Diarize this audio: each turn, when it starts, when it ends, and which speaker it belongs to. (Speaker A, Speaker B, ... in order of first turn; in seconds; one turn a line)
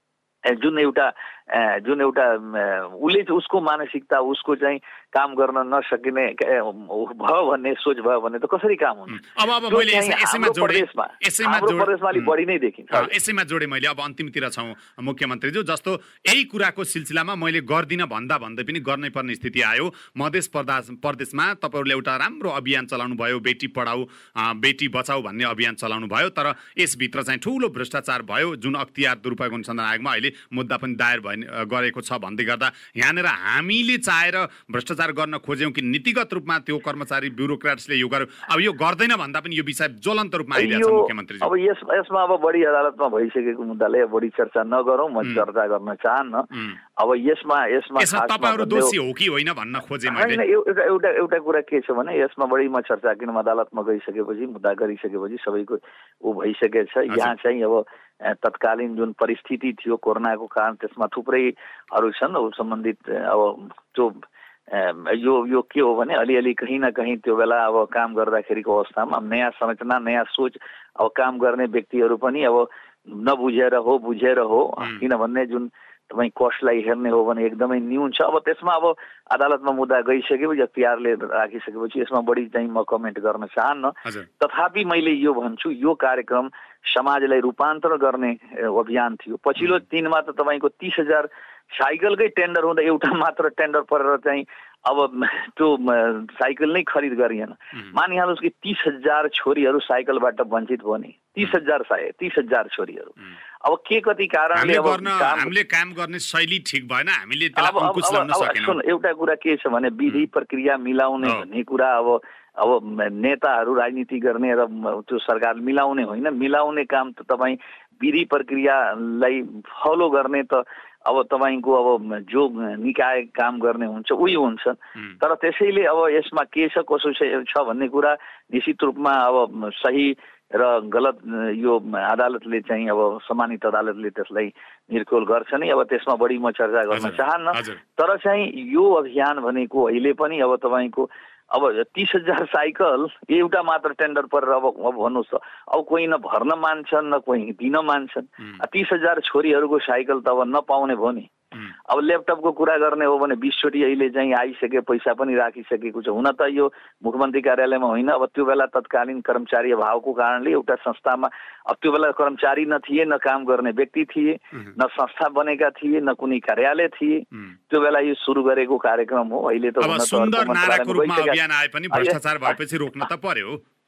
Speaker A: 0.5-13.1
Speaker B: 9.1-12.3
Speaker B: 12.9-41.5
Speaker A: 40.5-48.9
Speaker B: 48.0-50.4
Speaker A: 50.1-105.5
Speaker B: 104.5-108.8
Speaker A: 107.5-151.3
Speaker B: 136.9-137.8
Speaker A: 151.9-171.4
Speaker B: 169.8-173.6
Speaker A: 171.9-172.2